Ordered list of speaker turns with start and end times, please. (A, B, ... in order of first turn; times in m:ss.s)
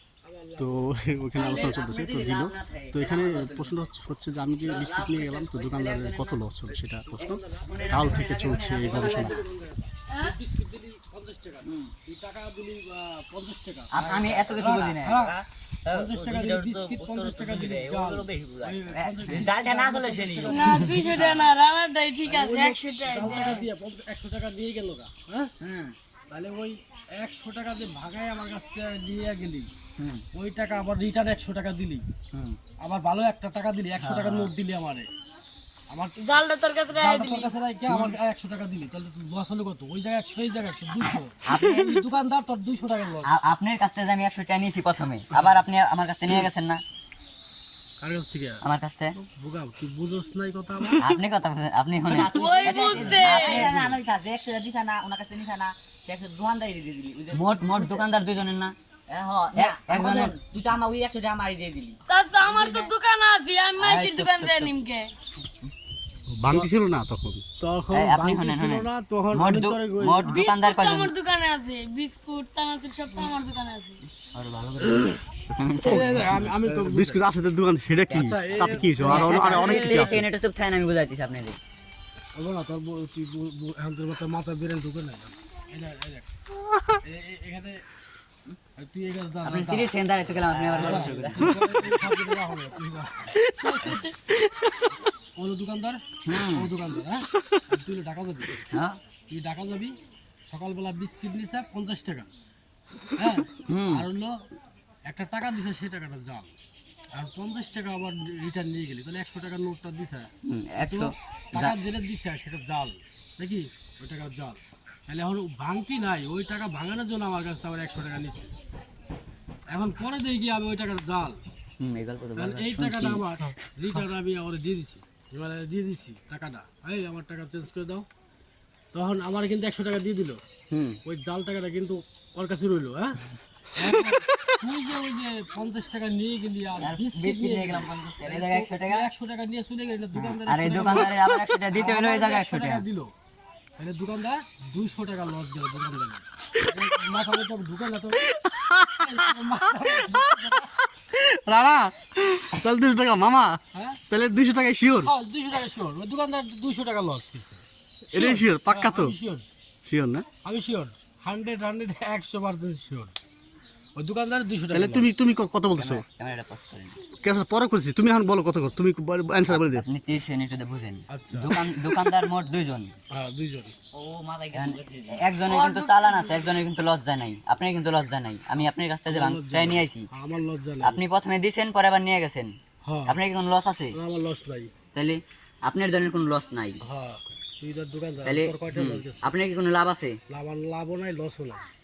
0:00.2-0:00.9 A
0:00.6-0:09.4 B
0:01.3-0:03.9 C
0:01.4-0:01.7 D
0:04.6-0:06.8 C
0:07.1-0:08.2 A
0:07.6-0:09.5 C
0:08.8-0:21.4 A
0:10.1-0:10.4 D
0:11.6-0:11.9 C
0:13.9-0:15.4 C
0:14.0-0:14.9 E
0:15.8-0:20.9 E
0:18.9-0:19.5 C
0:20.5-0:23.7 D
0:21.0-0:21.5 C
0:22.2-0:25.5 A
0:23.2-0:23.6 C
0:25.6-0:26.0 C
0:26.3-0:29.7 A
0:30.0-0:30.2 C
0:30.3-0:32.1 A
0:32.3-0:32.6 C
0:32.8-0:35.1 A
0:34.0-0:34.5 C
0:35.9-0:36.3 A
0:36.2-0:37.5 D
0:36.9-0:43.3 A
0:37.9-0:38.1 C
0:41.4-0:42.0 C
0:43.3-0:46.8 C
0:48.0-0:48.6 A
0:48.6-0:49.2 C
0:49.2-0:51.0 A
0:51.0-0:54.0 C
0:52.1-0:58.1 E
0:52.1-0:53.7 D
0:53.0-0:53.4 A
0:57.3-0:58.8 C
0:59.1-1:02.8 E
0:59.5-1:00.4 C
1:02.1-1:05.1 D
1:03.8-1:04.7 C
1:06.4-1:07.4 B
1:07.6-1:10.4 A
1:07.9-1:11.1 C
1:10.2-1:14.0 D
1:14.1-1:16.5 C
1:15.8-1:17.2 A
1:16.2-1:20.2 B
1:18.1-1:21.6 C
1:18.1-1:20.2 A
1:22.4-1:26.3 A
1:27.0-1:27.8 A
1:28.8-1:29.9 A
1:29.4-1:31.5 C
1:30.5-1:31.3 E
1:30.8-1:33.4 A
1:31.2-1:31.7 B
1:35.4-1:38.6 A
1:36.3-1:36.7 C
1:38.7-1:39.0 C
1:39.3-1:40.0 A
1:40.5-1:42.3 A
1:43.2-1:44.4 A
1:43.7-1:44.1 C
1:45.1-1:46.5 A
1:47.1-1:58.5 A
1:50.4-1:51.8 C
1:59.7-2:01.4 A
2:01.8-2:03.2 C
2:02.4-2:08.1 A
2:08.9-2:10.4 A
2:10.7-2:11.0 C
2:11.0-2:21.2 A
2:13.8-2:14.6 B
2:16.8-2:19.1 C
2:20.2-2:22.8 C
2:21.7-2:23.1 A
2:23.8-2:28.3 A
2:28.2-2:35.1 B
2:29.0-2:30.7 A
2:33.7-2:34.0 A
2:35.0-2:39.5 A
2:38.1-2:39.2 B
2:39.9-2:40.3 B
2:40.4-2:43.2 A
2:44.0-2:45.1 A
2:44.7-2:46.0 B
2:45.8-2:47.0 C
2:47.2-2:49.9 B
2:49.5-2:53.0 C
2:51.1-2:51.5 A
2:53.1-2:53.8 A
2:53.9-2:55.3 E
2:54.5-3:00.1 C
2:55.5-2:56.6 D
2:59.1-3:01.0 A
3:00.8-3:04.0 C
3:02.8-3:03.2 A
3:03.9-3:04.7 A
3:04.9-3:06.8 C
3:06.8-3:09.4 A
3:08.2-3:10.2 C
3:10.3-3:11.6 A